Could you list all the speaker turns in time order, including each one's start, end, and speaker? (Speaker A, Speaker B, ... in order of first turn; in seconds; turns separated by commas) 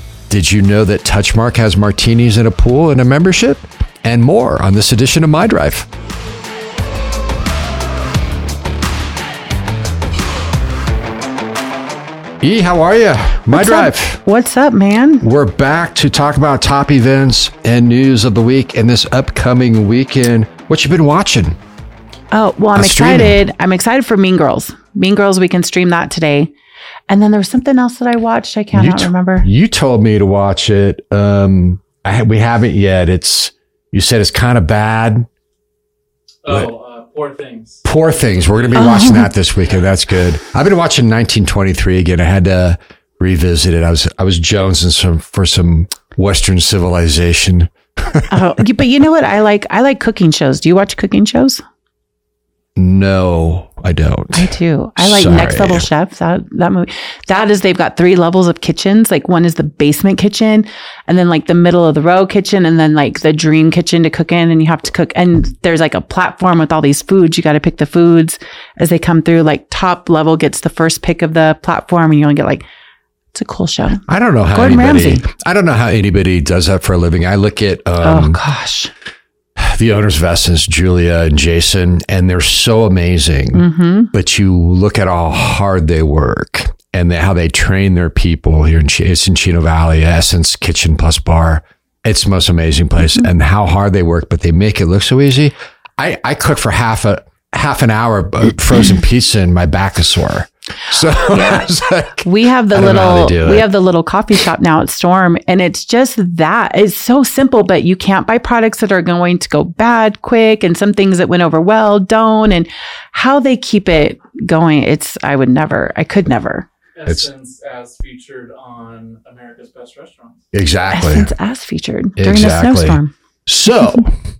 Speaker A: 0.3-5.9, Speaker A: 12.4-14.2, Speaker B: 13.5-15.2, Speaker A: 15.2-21.6, Speaker B: 22.3-26.5, Speaker A: 22.7-23.4, Speaker B: 27.1-29.5, Speaker A: 28.7-35.3, Speaker C: 36.4-37.8, Speaker A: 37.8-48.3, Speaker B: 38.7-39.3, Speaker B: 48.3-51.6, Speaker A: 52.8-55.8, Speaker B: 54.3-72.6, Speaker B: 73.3-75.2, Speaker A: 74.1-78.4, Speaker B: 78.0-78.9, Speaker A: 79.6-103.7, Speaker B: 83.5-84.1, Speaker B: 101.2-116.7, Speaker C: 117.0-120.4, Speaker A: 120.5-121.3, Speaker B: 120.9-123.1, Speaker A: 122.2-124.1